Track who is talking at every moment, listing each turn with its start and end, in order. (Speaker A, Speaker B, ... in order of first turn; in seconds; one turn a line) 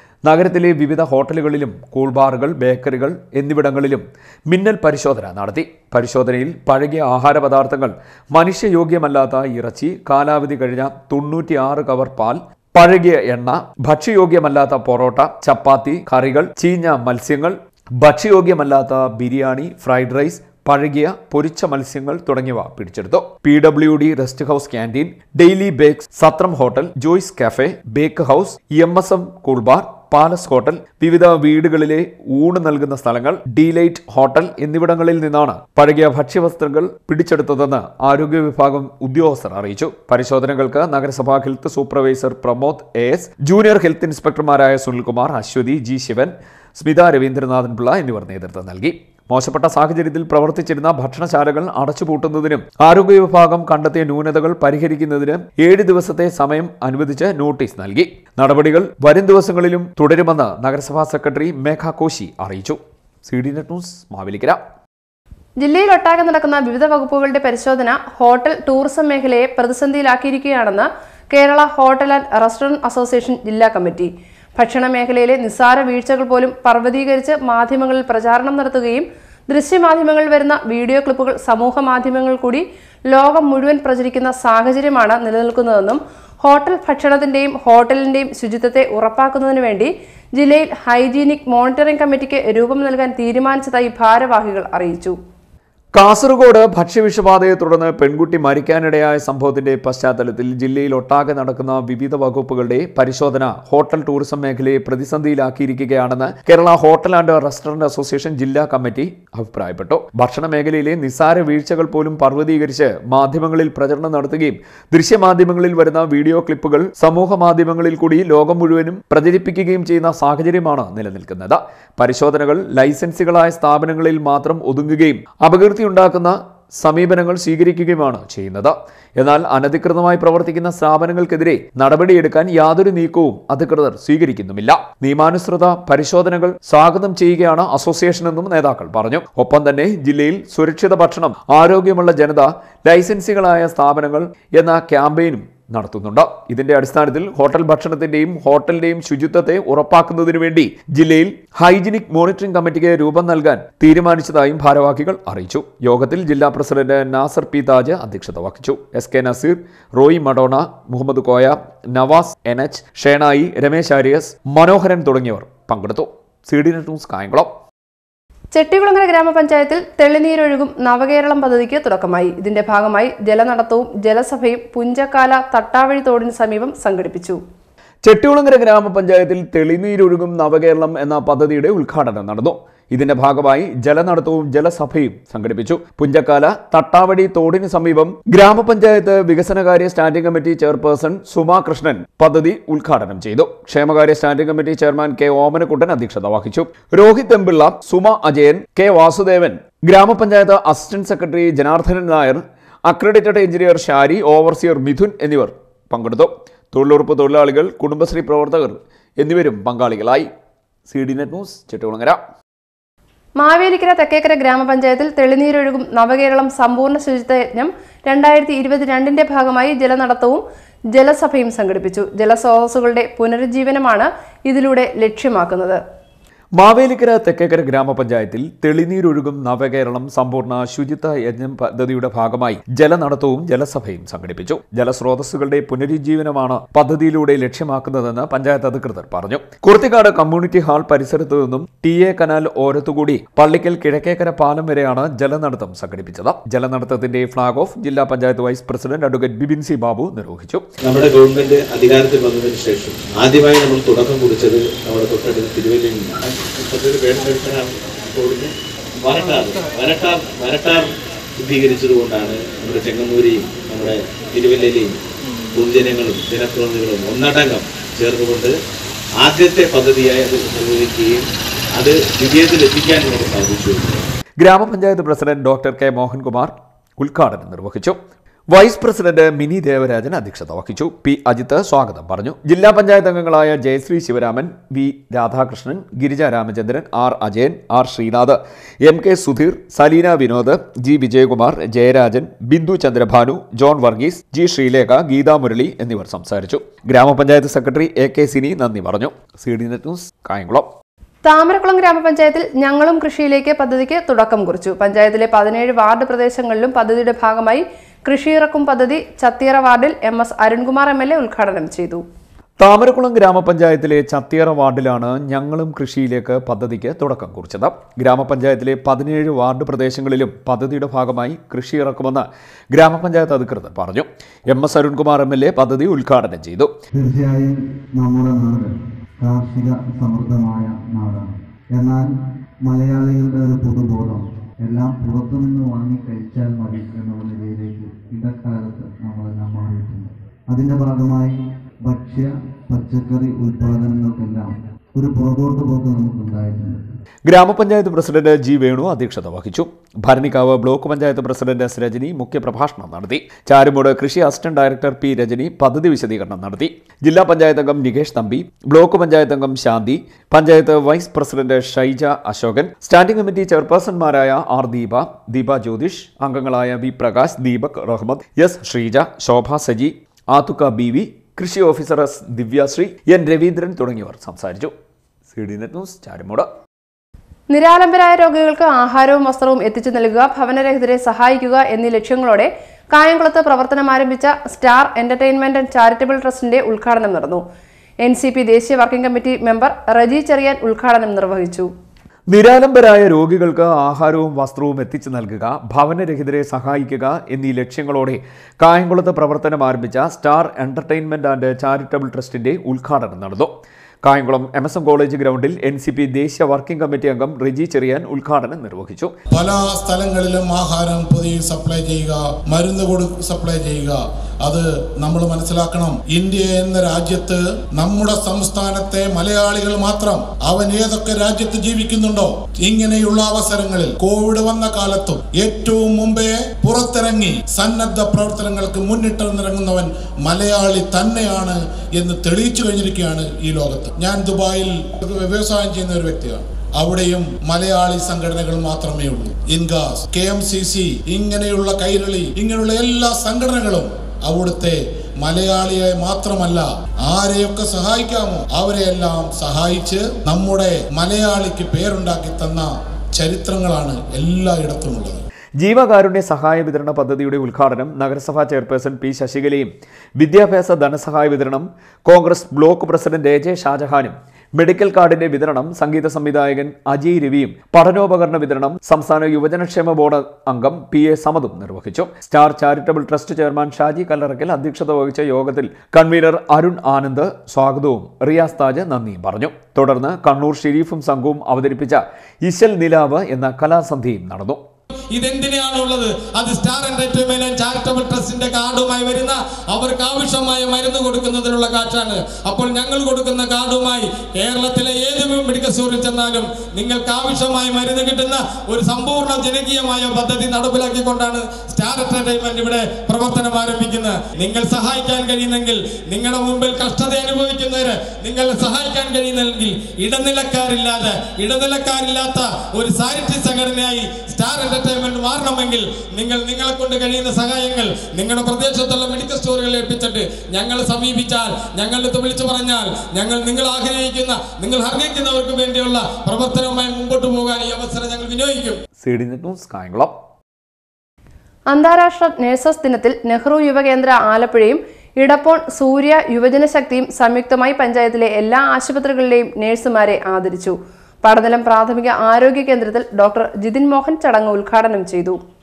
Speaker A: 0.3-64.6
Speaker B: 65.6-95.2
Speaker A: 96.0-167.5
Speaker B: 168.5-177.4
Speaker A: 178.0-210.3
Speaker A: 210.9-212.2
Speaker B: 213.4-220.4
Speaker B: 220.9-225.8
Speaker A: 226.6-250.6
Speaker C: 250.8-265.0
Speaker C: 265.5-268.5
Speaker C: 269.2-274.1
Speaker A: 274.4-278.0
Speaker A: 278.5-300.7
Speaker B: 301.2-312.0
Speaker A: 312.6-326.7
Speaker D: 326.9-346.8
Speaker A: 347.3-374.7
Speaker A: 375.3-376.5
Speaker B: 377.5-387.4
Speaker B: 388.0-391.7
Speaker A: 392.3-403.5
Speaker A: 404.0-409.1
Speaker E: 409.3-455.2
Speaker A: 455.6-484.6
Speaker F: 485.1-528.8
Speaker A: 529.0-530.1
Speaker B: 531.7-545.4